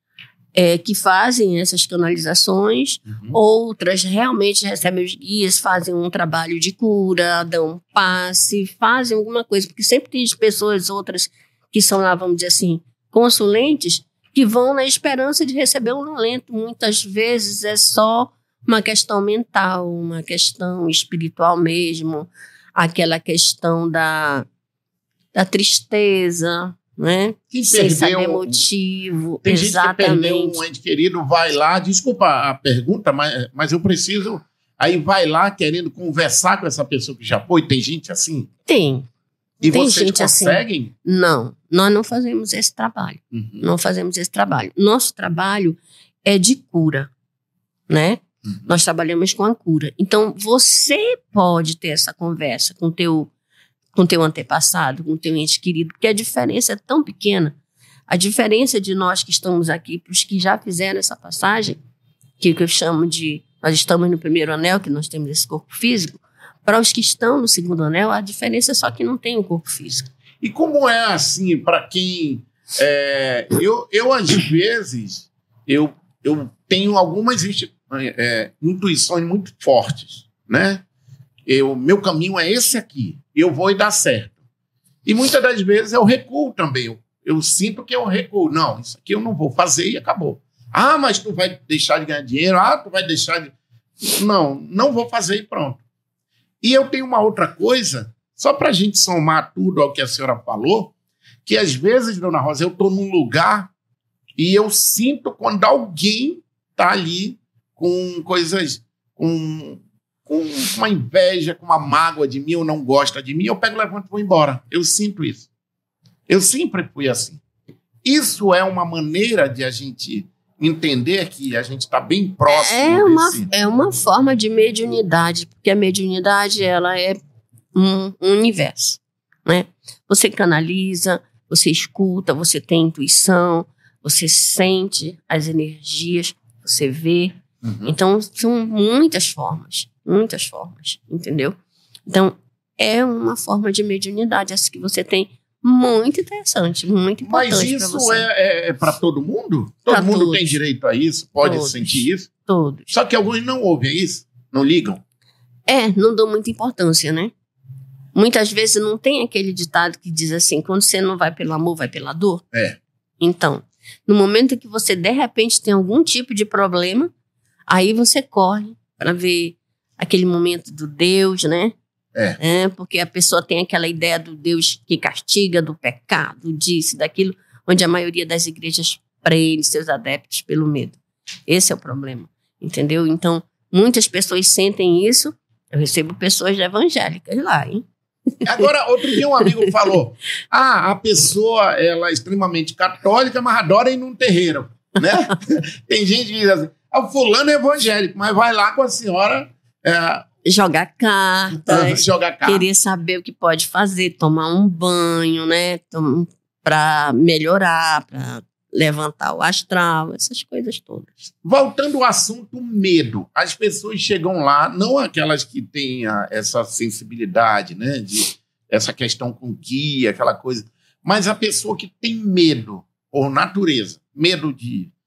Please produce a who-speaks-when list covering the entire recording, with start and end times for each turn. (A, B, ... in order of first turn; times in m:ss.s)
0:00.5-0:24.5 A
0:03.0-0:03.4 B
0:25.3-0:30.6 A
0:27.5-0:28.6 B
0:29.4-0:38.5 B
0:38.6-0:39.1 A
0:39.6-0:47.1 A
0:39.6-0:40.9 B
0:43.3-0:43.7 B
0:47.9-0:53.3 A
0:53.9-0:57.6 A
0:58.1-1:01.8 A
1:02.4-1:10.1 A
1:10.4-1:20.8 B
1:21.4-1:24.4 B
1:25.0-1:35.8 B
1:36.6-1:40.9 B
1:41.4-1:43.7 B
1:44.4-1:55.5 B
1:56.3-1:57.4 B
1:58.0-2:03.5 B
2:02.5-2:07.2 A
2:07.7-2:28.3 A
2:17.6-2:17.9 B
2:27.2-2:32.3 B
2:29.9-2:30.6 A
2:31.4-2:32.8 A
2:32.9-2:35.0 B
2:35.7-2:37.3 A
2:38.1-2:42.4 A
2:42.5-2:42.8 B
2:43.2-2:47.1 A
2:47.7-2:51.8 A
2:52.4-3:07.8 A
3:08.4-3:20.3 B
3:20.4-3:31.3 A
3:21.5-3:22.6 B
3:31.4-3:44.9 B